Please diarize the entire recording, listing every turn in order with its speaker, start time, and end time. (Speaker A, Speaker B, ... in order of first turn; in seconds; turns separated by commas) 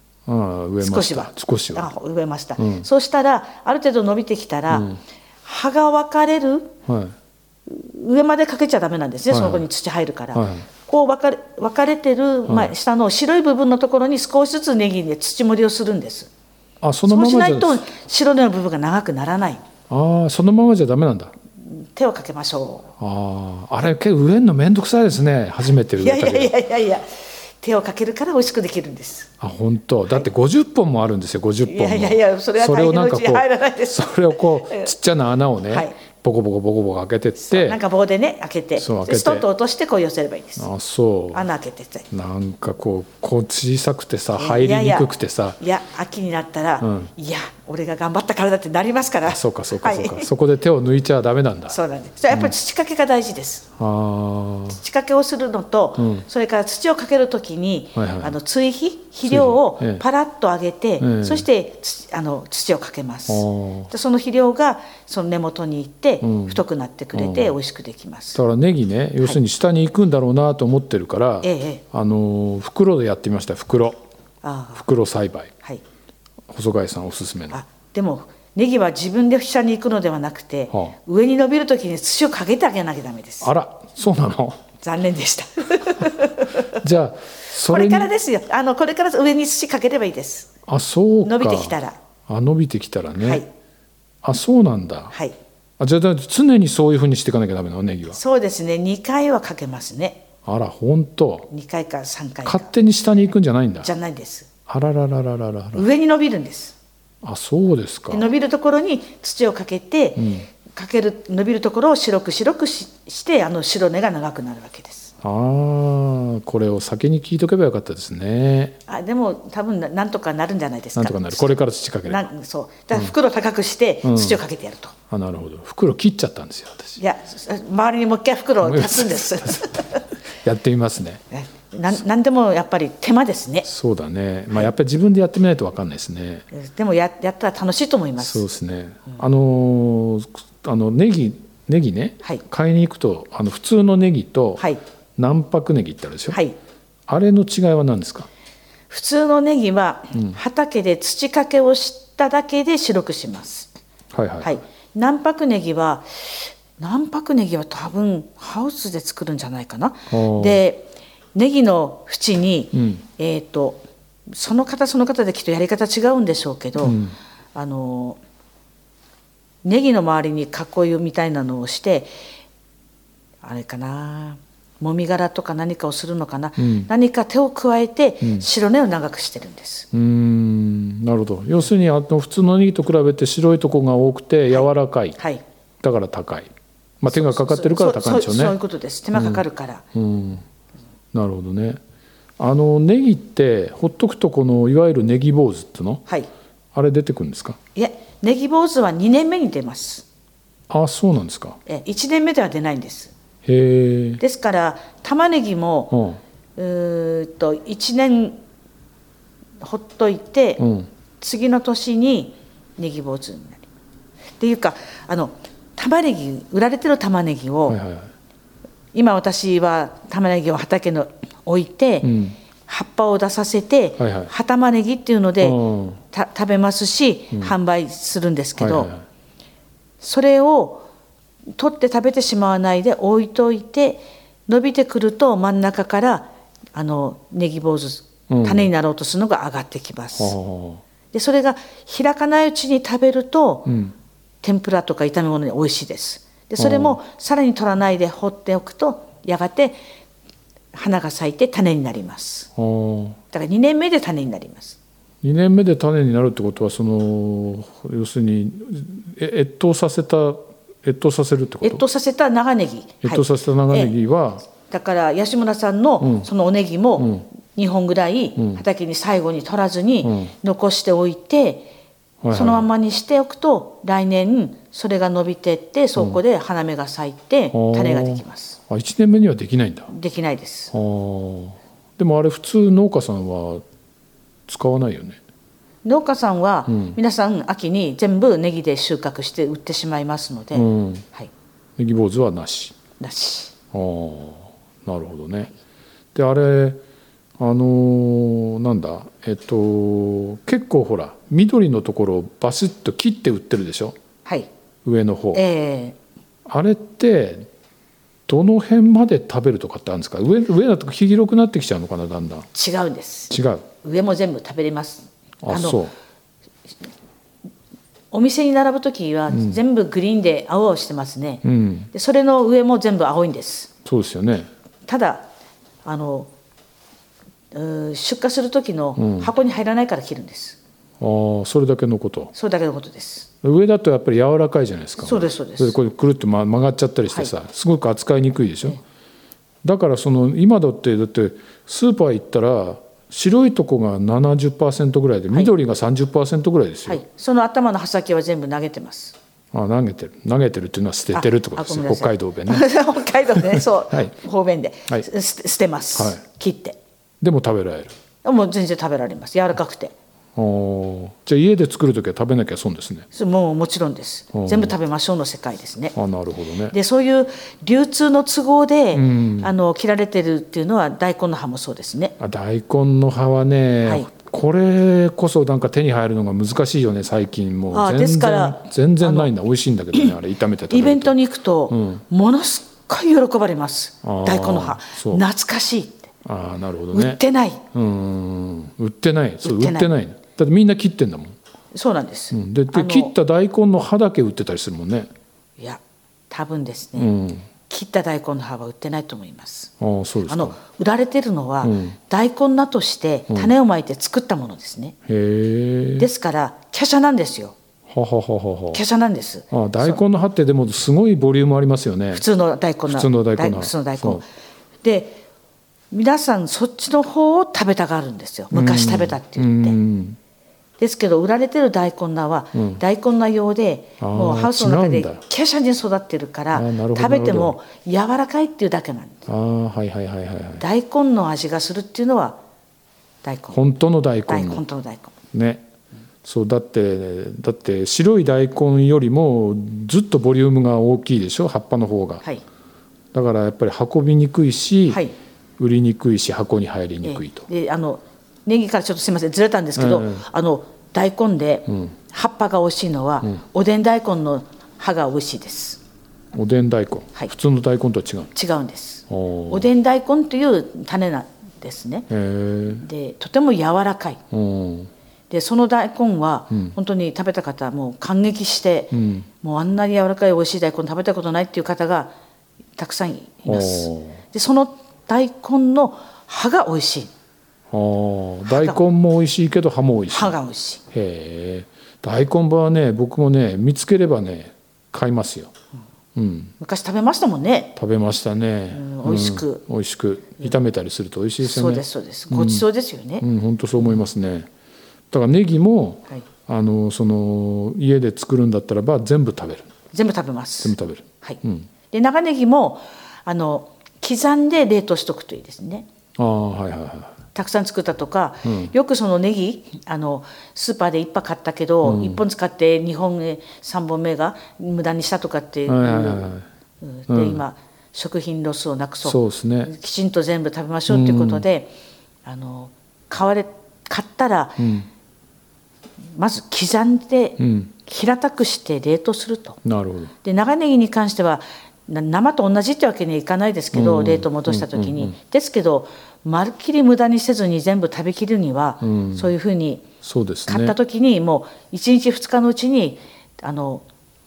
Speaker A: 0.3-1.9, Speaker B: 0.8-4.9, Speaker A: 2.6-2.9, Speaker A: 4.7-5.0, Speaker B: 5.5-6.8, Speaker A: 6.9-7.2, Speaker B: 7.7-16.3, Speaker A: 9.3-9.7, Speaker A: 10.3-10.7, Speaker A: 12.5-12.7, Speaker A: 16.8-17.8, Speaker B: 17.1-19.6, Speaker A: 19.9-21.3, Speaker B: 21.6-22.9, Speaker A: 23.0-26.5, Speaker B: 25.9-29.3, Speaker A: 29.4-37.8, Speaker B: 31.6-34.9, Speaker B: 35.7-36.0, Speaker B: 37.4-40.7, Speaker A: 38.8-39.5, Speaker A: 40.6-41.5, Speaker B: 41.3-42.1, Speaker A: 42.1-45.6, Speaker B: 44.4-50.3, Speaker A: 46.8-47.1, Speaker A: 49.3-51.8, Speaker B: 51.7-53.7, Speaker A: 53.8-54.8, Speaker B: 54.7-68.4, Speaker A: 56.0-56.2, Speaker A: 58.0-58.4, Speaker A: 59.2-60.0, Speaker A: 61.0-61.5, Speaker A: 63.3-63.9, Speaker A: 66.2-66.6, Speaker A: 67.1-67.6, Speaker A: 68.3-74.0, Speaker B: 71.4-71.8, Speaker B: 74.4-74.8, Speaker A: 74.8-75.5, Speaker A: 76.5-77.6, Speaker B: 77.5-83.5, Speaker A: 83.4-84.6, Speaker B: 84.8-86.8, Speaker A: 86.7-88.1, Speaker B: 87.6-90.5, Speaker A: 90.7-93.4, Speaker B: 91.2-92.0, Speaker B: 93.2-93.5, Speaker A: 94.2-95.2, Speaker A: 95.8-98.2, Speaker B: 98.1-100.2, Speaker A: 100.5-101.5, Speaker B: 101.5-102.7, Speaker A: 102.5-103.9, Speaker B: 103.8-104.5, Speaker A: 104.7-105.9, Speaker B: 105.7-106.8, Speaker A: 107.2-108.3, Speaker B: 108.1-115.1, Speaker A: 110.2-110.5, Speaker A: 115.2-118.8, Speaker B: 118.9-124.9, Speaker A: 121.0-122.3, Speaker A: 124.0-124.4, Speaker A: 125.1-127.0, Speaker B: 127.0-130.1, Speaker A: 128.6-129.8, Speaker A: 130.4-131.2, Speaker B: 131.3-133.7, Speaker A: 133.7-136.5, Speaker B: 136.5-138.4, Speaker A: 138.2-144.6, Speaker A: 145.2-146.4, Speaker B: 146.3-146.6, Speaker A: 147.1-148.3, Speaker B: 148.9-153.7, Speaker A: 154.1-154.6, Speaker B: 154.4-167.0, Speaker A: 160.1-160.6, Speaker A: 162.7-163.0, Speaker A: 166.8-167.2, Speaker B: 167.6-168.2, Speaker B: 169.6-172.1, Speaker B: 173.4-179.9, Speaker A: 176.6-176.9, Speaker A: 179.9-185.2, Speaker A: 185.8-186.5, Speaker A: 187.0-188.6, Speaker B: 187.1-189.8, Speaker A: 189.1-189.4, Speaker A: 189.9-190.4, Speaker A: 191.1-191.8, Speaker A: 192.4-196.0, Speaker A: 196.7-197.6, Speaker B: 197.8-200.1, Speaker A: 200.7-201.6, Speaker B: 201.7-203.1, Speaker A: 203.4-204.2, Speaker B: 204.2-206.0, Speaker A: 205.9-206.2, Speaker B: 206.6-208.4, Speaker B: 209.6-210.7, Speaker A: 210.6-210.9, Speaker B: 211.2-213.7, Speaker B: 214.4-217.8, Speaker A: 217.7-218.1, Speaker B: 218.9-228.9, Speaker A: 222.0-222.4, Speaker A: 224.0-224.3, Speaker A: 225.4-226.0, Speaker A: 228.6-229.0, Speaker B: 230.0-230.9, Speaker B: 231.6-240.3, Speaker A: 238.3-238.7, Speaker A: 240.2-240.8, Speaker B: 241.1-243.7, Speaker A: 243.7-243.9, Speaker B: 244.4-249.8, Speaker A: 246.6-247.0, Speaker B: 250.7-252.5, Speaker A: 252.6-253.2, Speaker B: 253.3-254.8, Speaker A: 255.2-261.8, Speaker B: 261.6-263.9, Speaker A: 263.0-264.4, Speaker B: 264.5-271.7, Speaker A: 266.0-266.3, Speaker A: 267.0-267.2, Speaker A: 270.0-270.3, Speaker A: 272.2-272.7, Speaker B: 272.3-278.6, Speaker A: 277.5-279.9, Speaker B: 279.9-280.7, Speaker A: 280.7-283.6, Speaker A: 284.5-285.2, Speaker B: 285.8-291.3, Speaker A: 286.7-287.0, Speaker A: 290.5-291.1, Speaker A: 291.8-292.8, Speaker B: 293.0-293.5, Speaker A: 293.7-295.5, Speaker A: 296.1-296.8, Speaker A: 297.4-303.9, Speaker A: 304.9-305.4, Speaker B: 305.3-306.0, Speaker A: 306.5-307.5, Speaker A: 308.3-312.5, Speaker B: 312.5-315.8, Speaker A: 313.3-313.6, Speaker A: 315.4-315.9, Speaker B: 318.1-323.7, Speaker A: 319.3-319.6, Speaker A: 321.4-321.9, Speaker A: 323.9-324.5, Speaker B: 324.9-325.3, Speaker B: 325.9-326.3, Speaker B: 327.5-330.6, Speaker A: 329.0-329.3, Speaker A: 331.0-332.3, Speaker B: 332.4-333.3, Speaker A: 333.4-338.8, Speaker B: 335.0-335.8, Speaker A: 339.6-347.0, Speaker B: 346.9-349.2, Speaker A: 349.5-352.6, Speaker B: 351.1-356.8, Speaker A: 353.4-354.1, Speaker A: 356.0-356.2, Speaker A: 357.2-357.9, Speaker B: 358.2-359.9, Speaker A: 360.4-363.1, Speaker B: 363.1-365.9, Speaker A: 364.3-364.7, Speaker A: 365.9-366.8, Speaker B: 366.7-372.1, Speaker A: 368.9-369.5, Speaker A: 372.2-381.1, Speaker B: 373.8-374.1, Speaker B: 377.7-379.3, Speaker B: 380.7-386.1, Speaker A: 381.7-382.0, Speaker A: 384.0-385.2, Speaker A: 386.2-387.2, Speaker B: 386.9-387.6, Speaker A: 387.7-391.4, Speaker B: 389.4-389.9, Speaker B: 391.7-393.1, Speaker A: 392.3-395.1, Speaker B: 395.6-397.1, Speaker A: 397.0-397.5, Speaker B: 397.7-399.7, Speaker A: 399.8-400.6, Speaker B: 400.3-405.0, Speaker A: 401.6-402.0, Speaker A: 405.1-406.1, Speaker B: 406.0-407.6, Speaker A: 407.9-408.8, Speaker B: 408.7-410.0, Speaker A: 409.5-412.2, Speaker B: 412.1-414.3, Speaker A: 412.9-414.2, Speaker B: 414.8-415.2, Speaker B: 415.9-419.8, Speaker A: 418.5-420.2, Speaker B: 420.8-429.3, Speaker A: 422.6-422.8, Speaker A: 424.0-425.2, Speaker A: 426.5-427.6, Speaker A: 429.3-430.6, Speaker B: 430.6-432.4, Speaker B: 433.2-433.6, Speaker A: 433.5-434.6, Speaker B: 434.3-435.1, Speaker A: 435.3-435.7, Speaker A: 436.2-442.2, Speaker A: 443.1-445.0, Speaker B: 444.9-445.1, Speaker A: 445.6-447.5, Speaker B: 447.0-455.8, Speaker A: 449.8-450.2, Speaker A: 456.3-458.3, Speaker B: 458.3-462.1, Speaker A: 459.1-459.7, Speaker A: 462.1-462.9, Speaker B: 462.7-464.2, Speaker A: 464.3-464.9, Speaker B: 465.3-472.1, Speaker A: 468.9-469.3, Speaker B: 472.8-477.1, Speaker A: 473.4-474.2, Speaker A: 477.7-480.4, Speaker B: 478.5-478.8, Speaker B: 480.1-480.8, Speaker A: 480.9-485.5, Speaker A: 486.2-486.5, Speaker B: 486.6-487.8, Speaker A: 487.8-492.7, Speaker B: 488.7-489.6, Speaker B: 491.4-493.2, Speaker A: 493.2-494.5, Speaker A: 495.1-499.7, Speaker B: 499.9-501.4, Speaker A: 500.6-501.7, Speaker B: 501.9-505.9, Speaker A: 506.2-507.2, Speaker B: 507.3-516.3, Speaker A: 508.4-508.7, Speaker A: 511.8-512.2, Speaker A: 515.7-516.5, Speaker B: 516.8-521.7, Speaker A: 517.1-517.4, Speaker A: 519.0-519.7, Speaker A: 520.9-521.5, Speaker B: 522.3-524.8, Speaker A: 524.6-524.9, Speaker B: 526.1-529.6, Speaker A: 527.4-527.7, Speaker A: 529.6-530.1, Speaker B: 530.2-539.9, Speaker A: 533.7-535.1, Speaker A: 538.8-539.3, Speaker A: 540.0-540.8, Speaker B: 540.5-543.8